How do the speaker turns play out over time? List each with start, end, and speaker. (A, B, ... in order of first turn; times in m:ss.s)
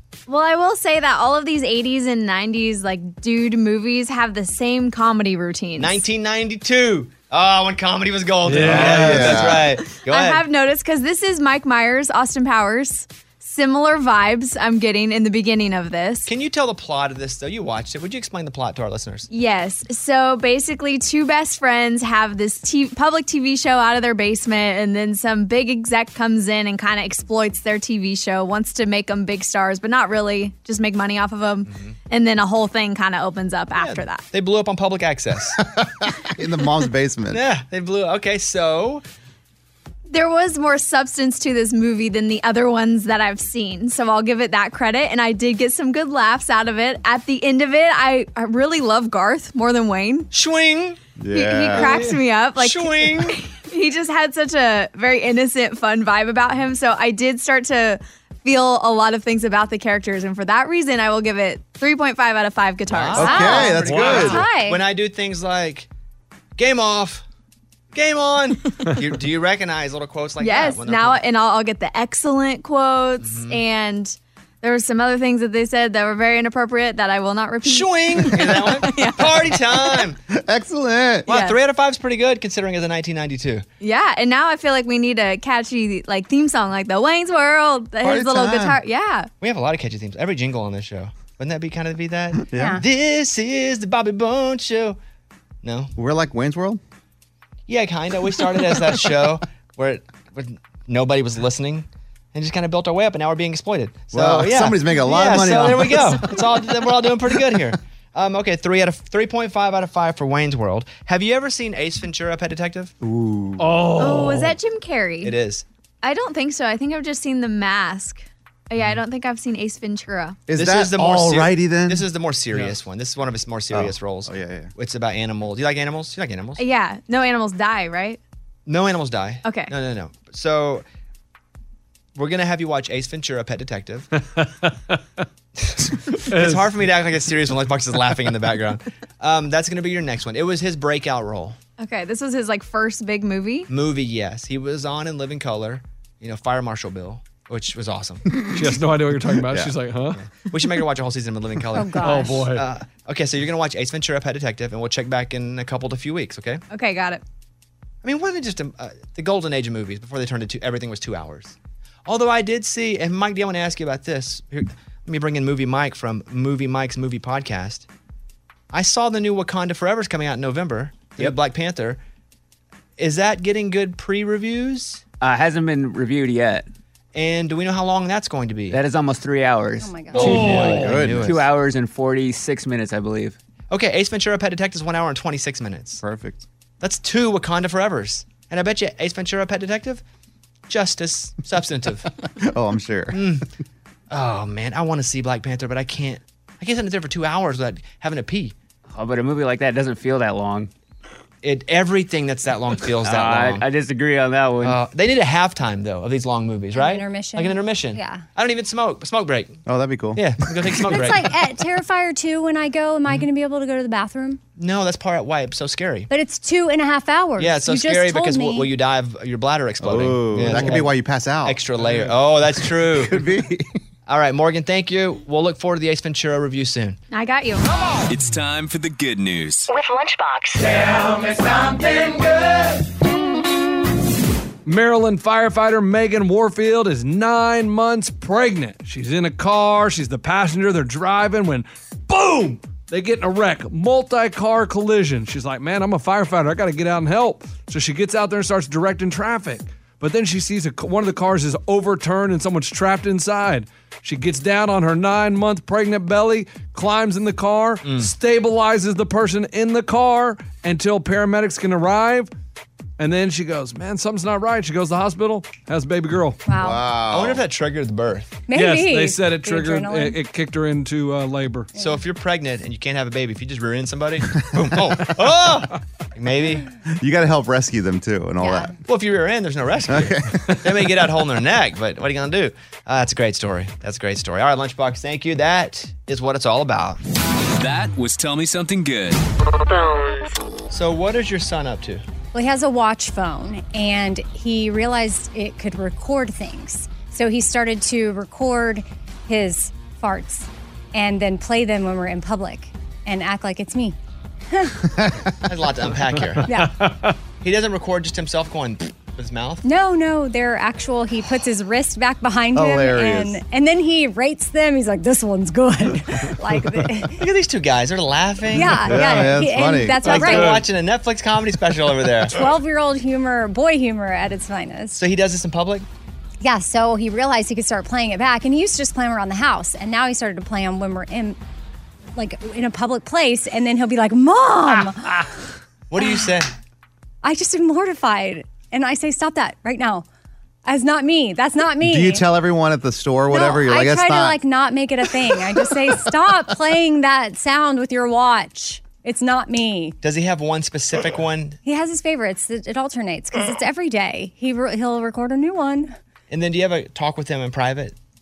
0:00.3-0:06.0 A
0:05.8-0:10.4 B
0:08.4-0:09.5 C
0:08.6-0:09.7 D
0:09.9-0:16.3 A
0:16.2-0:19.3 B
0:19.3-0:34.2 A
0:31.6-0:31.9 B
0:33.8-0:35.6 B
0:35.6-0:37.4 D
0:37.3-0:39.0 B
0:40.1-0:50.3 A
0:50.3-0:51.0 B
0:51.2-0:52.0 D
0:51.3-1:03.5 A
0:52.6-0:53.4 B
1:02.9-1:05.9 B
1:03.1-1:04.4 D
1:03.2-1:04.8 E
1:03.8-1:04.3 C
1:06.6-1:07.2 B
1:07.9-1:11.2 B
1:10.4-1:20.0 A
1:13.2-1:13.6 B
1:17.6-1:20.2 B
1:20.3-1:21.3 D
1:21.2-1:23.6 B
1:21.3-1:21.6 A
1:23.8-1:29.3 A
1:28.0-1:28.8 D
1:29.4-1:35.0 B
1:32.4-1:32.8 D
1:32.5-1:32.8 E
1:35.6-1:35.9 B
1:36.0-1:36.8 D
1:37.7-1:52.9 B
1:44.1-1:46.4 D
1:53.0-1:53.8 D
1:53.6-1:54.5 C
1:54.0-1:55.4 A
1:55.2-1:55.6 B
1:56.0-2:00.4 A
2:00.5-2:02.0 D
2:00.6-2:06.6 B
2:03.7-2:04.7 D
2:06.6-2:08.2 A
2:08.6-2:10.8 B
2:09.4-2:09.7 A
2:12.1-2:14.1 B
2:14.4-2:15.0 C
2:15.6-2:21.6 B
2:16.1-2:16.7 C
2:21.8-2:23.7 A
2:23.7-2:28.2 B
2:28.5-2:30.2 C
2:30.1-2:36.6 B
2:31.7-2:32.5 E
2:32.0-2:32.6 C
2:36.7-2:37.2 A
2:38.0-2:47.8 B
2:48.7-2:52.0 B
2:53.0-2:55.0 B
2:55.2-2:56.7 F
2:57.1-2:58.8 B
2:58.7-3:03.4 F
2:59.8-3:00.5 E
3:00.1-3:01.4 B
3:00.2-3:01.0 C
3:00.8-3:01.4 D
3:03.7-3:06.0 B
3:06.0-3:06.4 D
3:06.8-3:10.0 B
3:10.7-3:12.1 B
3:12.4-3:13.3 D
3:13.1-3:13.4 B
3:14.1-3:18.5 B
3:18.9-3:20.7 F
3:21.4-3:23.6 B
3:23.0-3:24.8 F
3:24.6-3:29.6 B
3:26.7-3:28.2 E
3:29.6-3:30.9 D
3:30.1-3:31.3 B
3:30.9-3:34.4 E
3:34.6-3:36.1 B
3:36.1-3:38.7 E
3:37.4-3:40.9 B
3:39.8-3:41.6 D
3:41.4-3:43.2 B
3:42.8-3:43.7 D
3:44.1-3:47.0 B
3:47.1-3:47.6 A
3:48.1-3:49.7 G
3:49.7-3:50.9 H
3:54.6-4:22.3 C
4:17.8-4:18.1 B
4:23.0-4:26.4 C
4:26.5-4:26.8 E
4:26.6-4:27.4 D
4:27.1-4:28.4 B
4:28.5-4:30.2 E
4:28.5-4:31.7 C
4:31.8-4:36.7 B
4:37.0-4:38.7 D
4:38.4-4:38.7 E
4:38.8-4:47.0 B
4:39.9-4:40.4 D
4:47.5-4:49.2 G
4:49.6-4:50.4 H
4:50.7-4:52.0 B
4:52.3-5:04.0 E
5:04.5-5:04.8 E
5:04.9-5:05.3 D
5:05.4-5:06.5 B
5:06.4-5:06.8 E
5:06.6-5:07.1 C
5:07.4-5:09.6 B
5:09.6-5:17.2 E
5:12.5-5:13.4 D
5:17.2-5:19.0 B
5:18.5-5:20.6 E
5:18.8-5:20.5 D
5:20.0-5:22.4 B
5:20.1-5:20.6 C
5:22.3-5:25.0 E
5:24.9-5:25.8 B
5:26.4-5:31.4 E
5:32.2-5:35.2 E
5:35.9-5:36.5 B
5:36.0-5:36.3 E
5:37.2-5:40.0 E
5:40.6-5:42.2 E
5:41.8-5:44.4 D
5:43.3-5:50.0 E
5:50.0-5:51.6 B
5:51.6-5:56.0 E
5:56.3-5:58.0 B